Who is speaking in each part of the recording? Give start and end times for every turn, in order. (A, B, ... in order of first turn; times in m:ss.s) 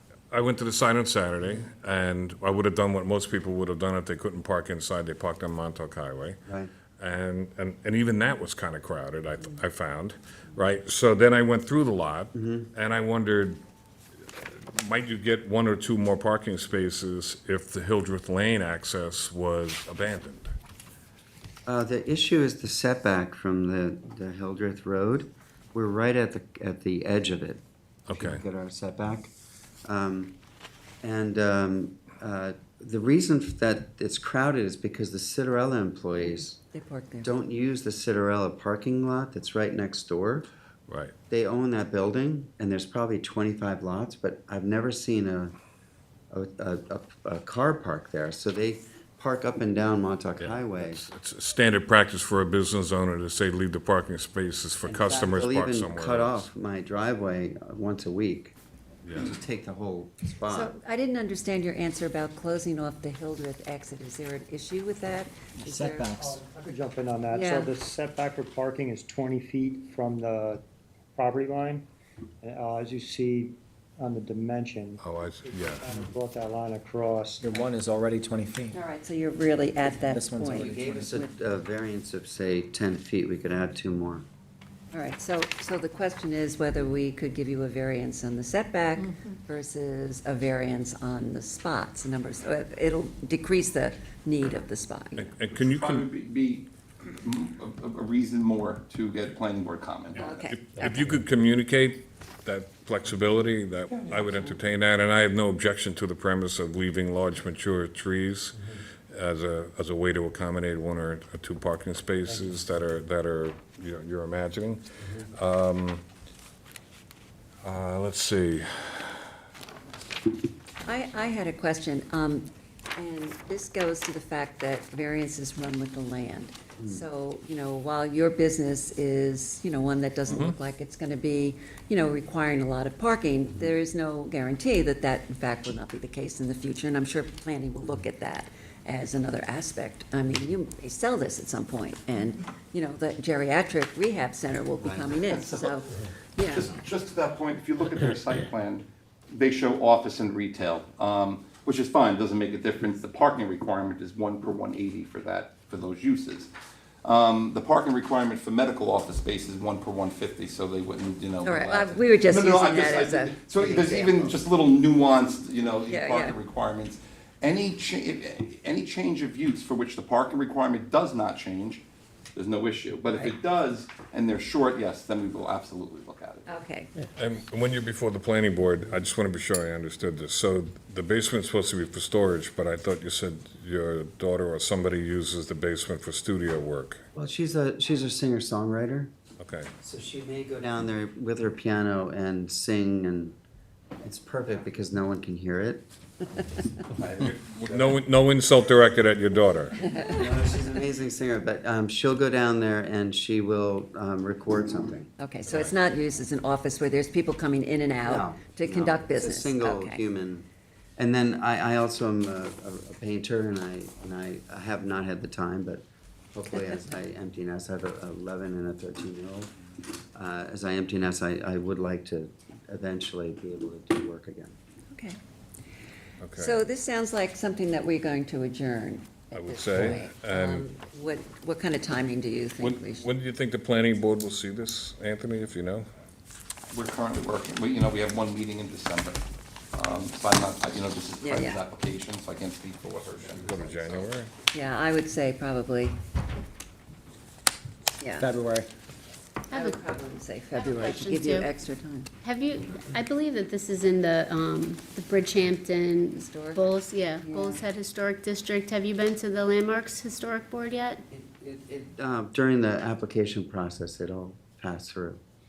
0:00.3-0:06.4 A
0:07.0-0:13.6 A
0:12.3-0:12.7 B
0:14.3-0:20.5 A
0:21.6-0:29.3 B
0:28.1-0:28.4 A
0:29.8-0:30.3 B
0:31.0-0:36.6 B
0:36.2-0:37.3 C
0:37.2-0:40.5 B
0:40.9-0:41.1 A
0:41.3-0:45.5 B
0:46.3-0:51.0 B
0:50.4-0:56.5 A
0:54.8-0:58.6 B
0:59.0-0:59.3 A
0:59.1-1:00.7 B
1:00.5-1:06.1 C
1:05.6-1:06.3 D
1:06.2-1:10.6 E
1:07.3-1:07.7 C
1:11.2-1:11.8 E
1:12.4-1:17.6 E
1:15.0-1:15.9 A
1:17.4-1:18.8 D
1:18.7-1:21.3 C
1:20.1-1:21.1 D
1:20.5-1:24.2 B
1:24.9-1:35.3 C
1:35.2-1:36.1 A
1:35.5-1:40.4 F
1:40.2-1:41.2 C
1:40.4-1:56.0 A
1:57.6-1:59.2 A
2:00.8-2:26.8 C
2:10.3-2:10.6 A
2:26.5-2:36.5 F
2:37.0-2:51.8 F
2:41.4-2:44.4 C
2:45.8-2:46.4 C
2:52.3-2:56.4 F
2:53.1-2:53.3 C
2:56.4-2:56.9 C
2:57.2-3:07.0 A
3:07.1-3:09.1 B
3:09.4-3:09.7 A
3:09.8-3:13.4 B
3:14.0-3:15.8 B
3:16.9-3:17.9 B
3:17.2-3:19.7 A
3:19.8-3:20.2 C
3:20.0-3:25.1 B
3:25.2-3:30.0 C
3:25.5-3:25.7 A
3:28.0-3:30.4 B
3:31.0-3:39.5 B
3:40.1-3:44.6 B
3:44.9-3:45.2 C
3:46.2-3:46.6 A
3:46.3-3:53.0 C
3:49.3-3:50.7 A
3:52.6-3:55.8 A
3:56.7-3:59.2 F
3:59.7-4:04.0 F
4:01.2-4:01.6 C
4:03.4-4:04.3 A
4:04.5-4:06.0 C
4:08.0-4:08.3 C
4:08.2-4:08.7 D
4:09.5-4:12.1 C
4:09.5-4:09.8 G
4:10.5-4:11.5 G
4:12.2-4:21.0 G
4:16.1-4:17.6 C
4:21.1-4:25.2 B